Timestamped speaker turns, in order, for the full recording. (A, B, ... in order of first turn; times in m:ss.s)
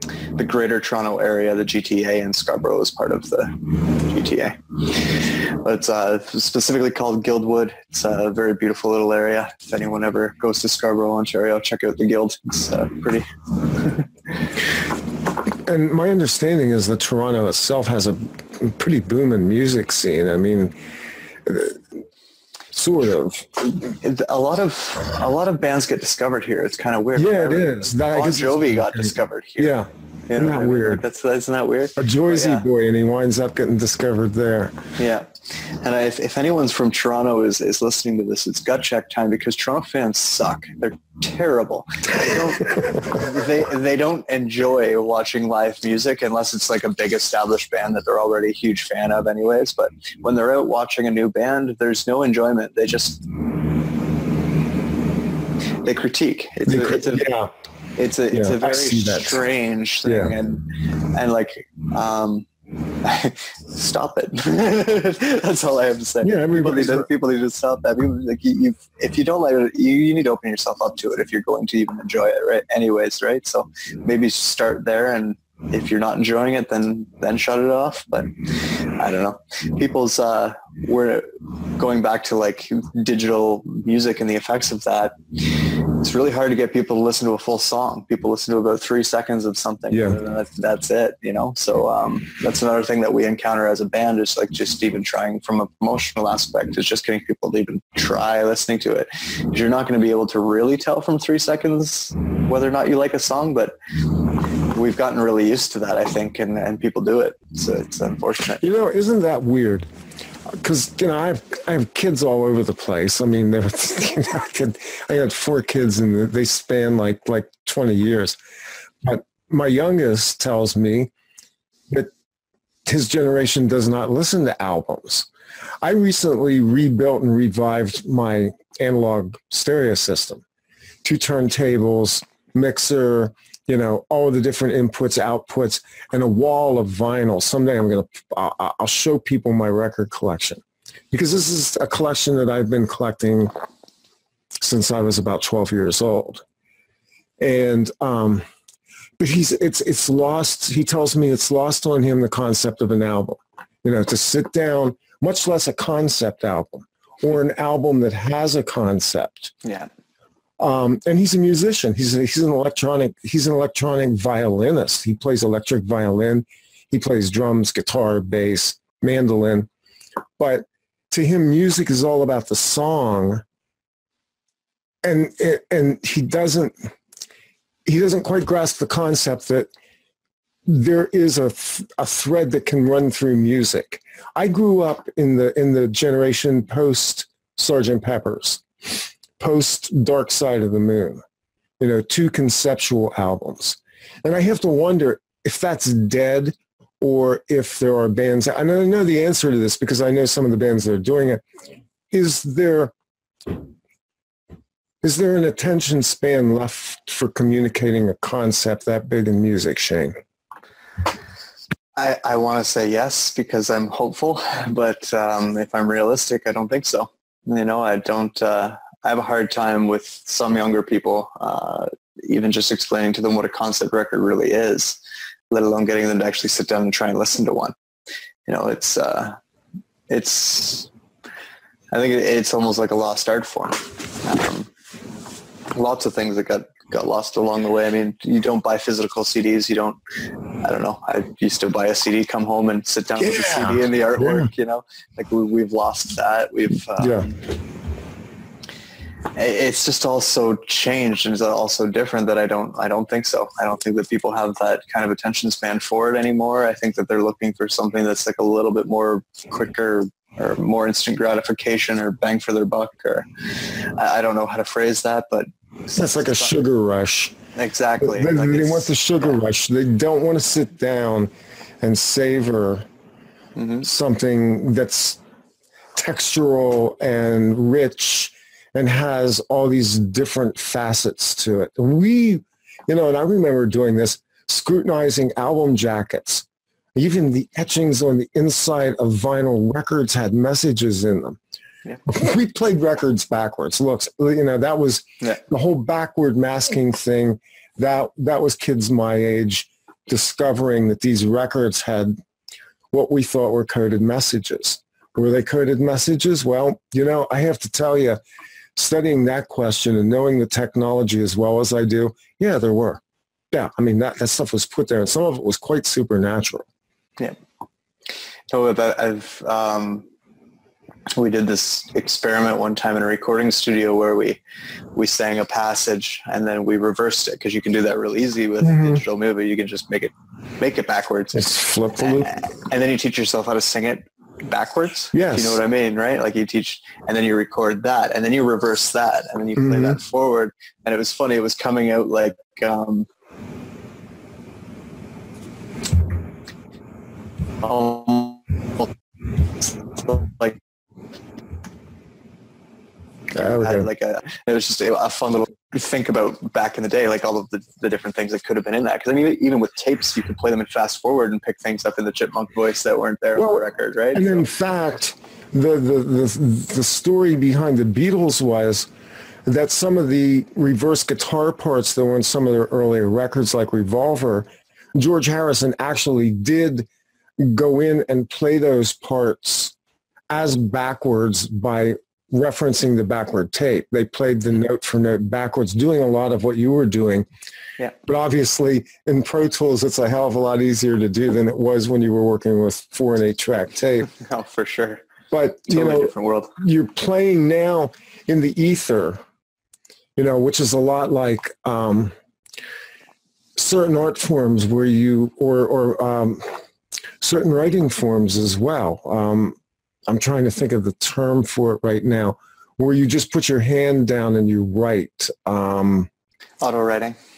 0:00.3-0:05.0 A
0:05.6-0:13.3 A
0:13.8-0:14.1 A
0:15.7-0:20.8 B
0:21.4-0:22.0 B
0:22.7-0:23.5 B
0:23.6-0:29.7 A
0:27.2-0:31.0 B
0:30.3-0:32.7 A
0:32.0-0:34.8 B
0:35.0-0:35.3 A
0:35.8-0:53.2 A
0:55.8-0:57.3 A
0:56.7-0:57.5 B
0:58.0-1:02.5 A
0:58.3-0:59.4 B
1:00.0-1:00.3 B
1:03.0-1:18.3 A
1:06.2-1:07.1 B
1:19.0-1:25.2 A
1:26.0-1:43.8 A
1:29.9-1:30.2 B
1:44.7-1:48.6 A
1:48.6-1:49.9 B
1:50.5-1:58.4 B
1:59.0-2:01.1 B
2:02.9-2:05.3 B
2:05.8-2:10.4 B
2:11.0-2:23.5 B
2:24.6-2:26.4 B
2:27.4-2:28.4 B
2:29.2-2:39.5 B
2:39.6-2:39.9 A
2:40.6-2:49.7 B
2:50.4-2:53.4 B
2:55.0-2:56.9 B
2:57.9-2:59.7 B
3:00.7-3:11.2 B
3:11.8-3:21.4 B
3:22.1-3:22.9 B
3:25.0-3:30.1 B
3:32.0-3:45.0 A
3:45.5-3:47.7 A
3:48.5-3:49.4 A
3:50.1-3:50.9 A
3:51.9-3:54.7 A
3:55.7-4:00.0 A
4:00.6-4:07.4 A
4:03.2-4:04.5 B
4:07.0-4:07.3 B
4:09.4-4:23.3 A
4:24.0-4:26.5 A
4:25.9-4:27.4 B
4:27.6-4:28.9 A
4:28.0-4:32.9 B
4:33.6-4:33.9 A
4:33.8-4:35.2 B
4:36.0-4:51.4 B
4:52.0-5:02.2 B
5:02.9-5:08.2 B
5:08.8-5:13.0 B
5:13.5-5:16.7 B
5:18.5-5:20.1 A
5:21.1-5:24.4 A
5:25.0-5:43.1 A
5:28.6-5:29.0 B
5:31.3-5:32.3 B
5:35.1-5:35.6 B
5:39.6-5:40.0 B
5:47.6-5:48.9 A
5:49.6-5:50.6 A
5:53.3-5:53.9 B
5:53.3-6:04.5 A
6:03.4-6:08.9 B
6:09.5-6:16.9 B
6:17.4-6:19.7 B
6:20.3-6:27.3 B
6:28.0-6:34.1 B
6:34.2-6:35.0 A
6:35.3-6:39.2 B
6:35.7-6:36.5 A
6:40.2-6:42.1 B
6:43.6-6:46.6 B
6:47.2-6:56.1 B
6:56.6-6:57.2 A